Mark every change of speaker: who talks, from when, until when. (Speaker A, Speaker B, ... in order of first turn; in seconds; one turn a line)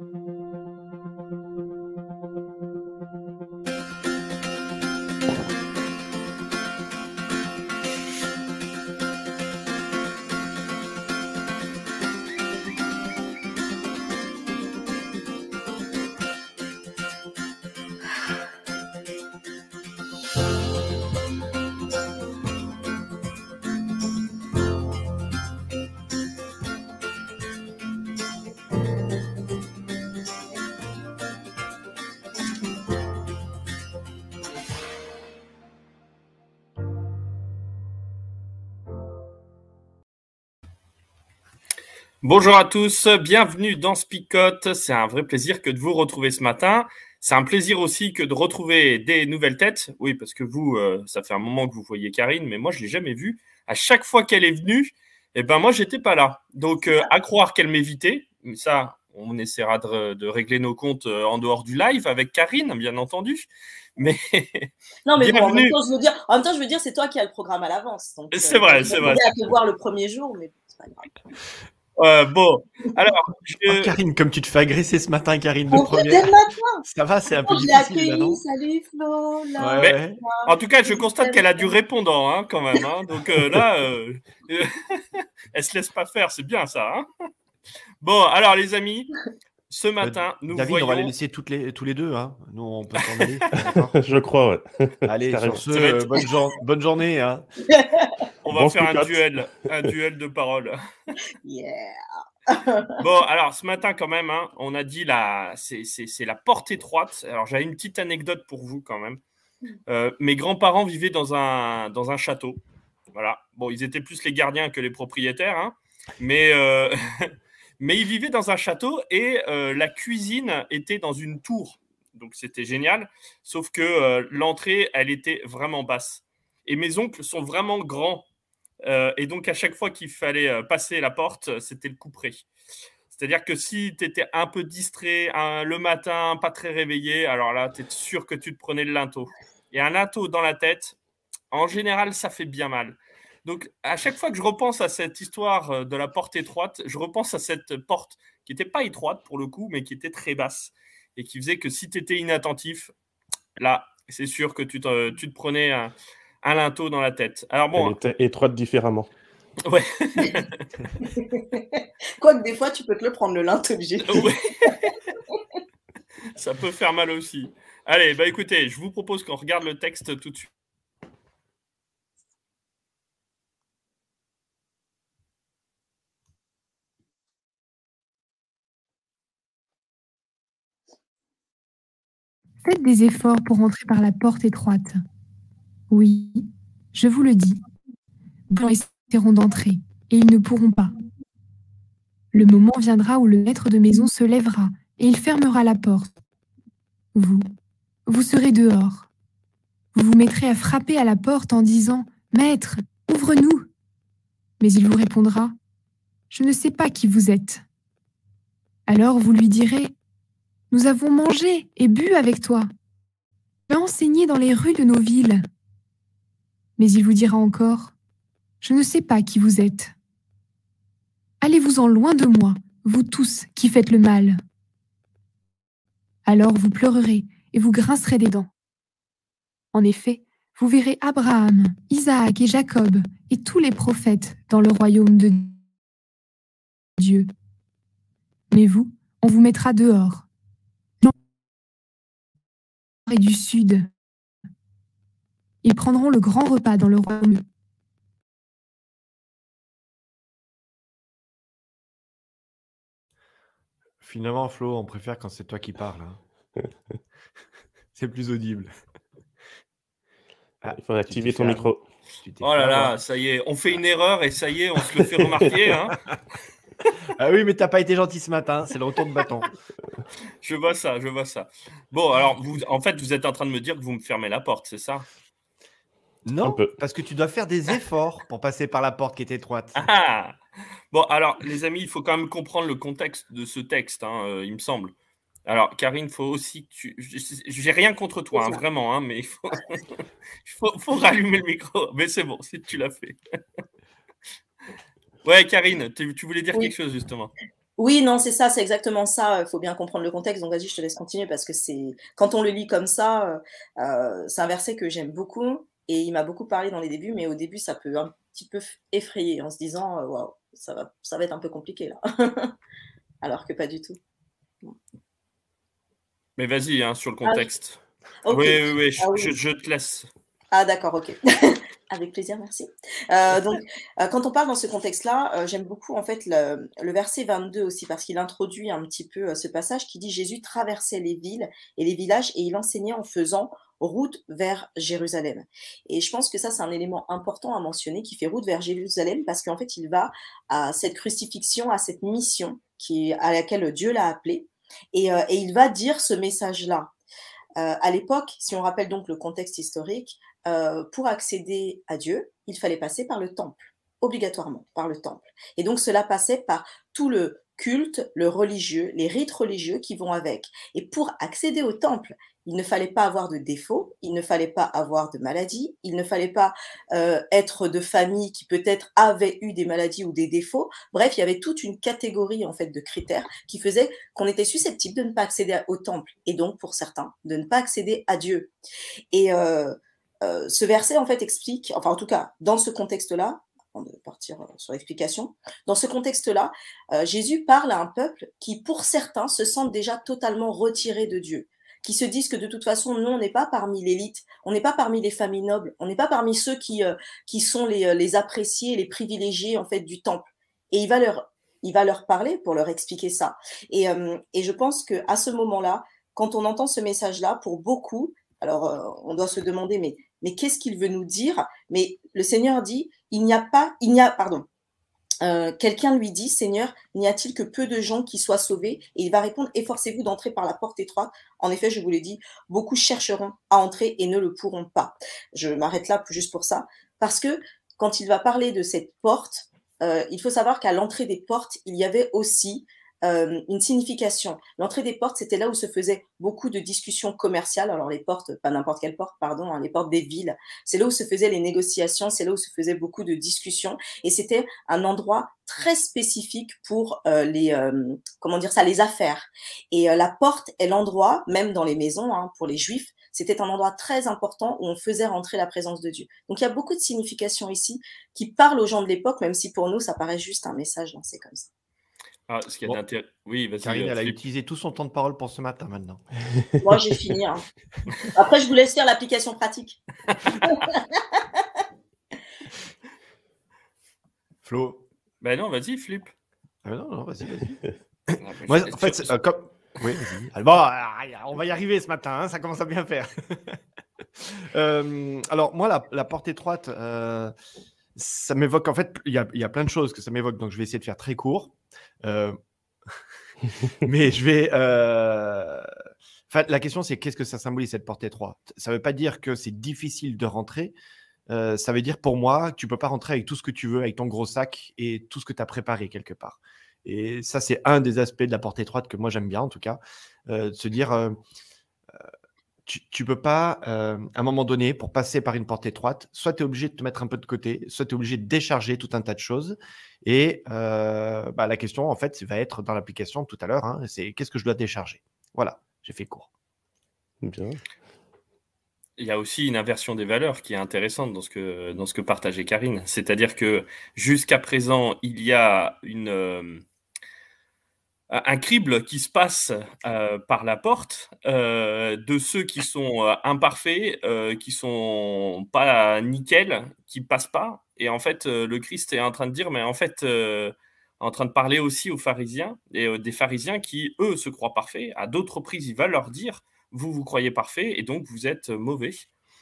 Speaker A: 42.2-65.8
Speaker B: 65.0-71.1
Speaker A: 68.3-69.3
Speaker A: 72.0-74.0
Speaker C: 73.7-76.3
Speaker B: 75.7-76.8
Speaker C: 76.8-78.4
Speaker B: 77.4-81.7
Speaker C: 79.6-80.2
Speaker A: 79.8-87.1
Speaker A: 88.0-89.1
Speaker A: 89.7-91.1
Speaker C: 90.0-94.0
Speaker A: 93.2-93.7
Speaker D: 93.6-95.6
Speaker C: 95.0-97.4
Speaker A: 95.7-96.3
Speaker B: 97.7-98.1
Speaker A: 98.4-100.8
Speaker D: 98.5-99.2
Speaker B: 101.4-103.0
Speaker A: 103.0-109.2
Speaker A: 109.9-112.6
Speaker A: 113.1-128.3
Speaker A: 128.8-132.4
Speaker A: 133.1-141.0
Speaker A: 141.5-152.9
Speaker A: 153.6-157.9
Speaker D: 157.7-159.1
Speaker A: 159.6-160.6
Speaker B: 161.0-164.7
Speaker A: 164.1-164.9
Speaker A: 166.3-170.5
Speaker E: 182.6-184.9
Speaker E: 185.9-187.6
Speaker E: 188.5-190.9
Speaker E: 192.3-196.1
Speaker E: 197.1-197.4
Speaker E: 198.1-199.1
Speaker E: 199.9-203.7
Speaker E: 204.6-205.5
Speaker E: 206.3-207.6
Speaker E: 208.9-209.9
Speaker E: 210.7-212.7
Speaker E: 213.7-215.5
Speaker E: 216.8-217.9
Speaker E: 218.6-219.9
Speaker E: 221.4-224.4
Speaker E: 226.2-228.5
Speaker E: 229.7-235.6
Speaker E: 237.0-237.3
Speaker E: 238.5-240.3
Speaker E: 243.1-243.9
Speaker E: 245.6-247.4
Speaker C: 254.0-256.2
Speaker C: 257.9-258.7
Speaker C: 260.6-262.9
Speaker D: 260.7-261.8
Speaker A: 262.4-265.9
Speaker C: 264.9-265.4
Speaker C: 267.2-269.5
Speaker A: 270.4-275.1
Speaker C: 276.2-279.9
Speaker D: 276.4-276.7
Speaker A: 279.8-280.4
Speaker A: 280.9-284.9
Speaker A: 285.4-293.2
Speaker B: 288.3-288.6
Speaker A: 295.2-297.3
Speaker B: 297.8-312.5
Speaker B: 313.2-314.0
Speaker A: 316.4-320.1
Speaker B: 318.2-319.4
Speaker B: 320.5-346.9
Speaker B: 347.6-378.5
Speaker B: 379.1-414.5
Speaker B: 415.2-461.5
Speaker A: 462.3-464.2
Speaker C: 463.6-466.0
Speaker B: 466.6-467.4
Speaker B: 468.1-469.8
Speaker B: 470.3-471.0
Speaker C: 474.4-474.8
Speaker A: 475.2-476.1
Speaker C: 476.6-483.6
Speaker A: 478.2-479.1
Speaker C: 484.2-487.3
Speaker C: 487.9-493.0
Speaker C: 493.8-495.7
Speaker C: 496.3-500.7
Speaker C: 501.3-511.2
Speaker C: 512.6-526.3
Speaker D: 527.2-527.6
Speaker A: 529.0-536.6
Speaker A: 538.1-559.1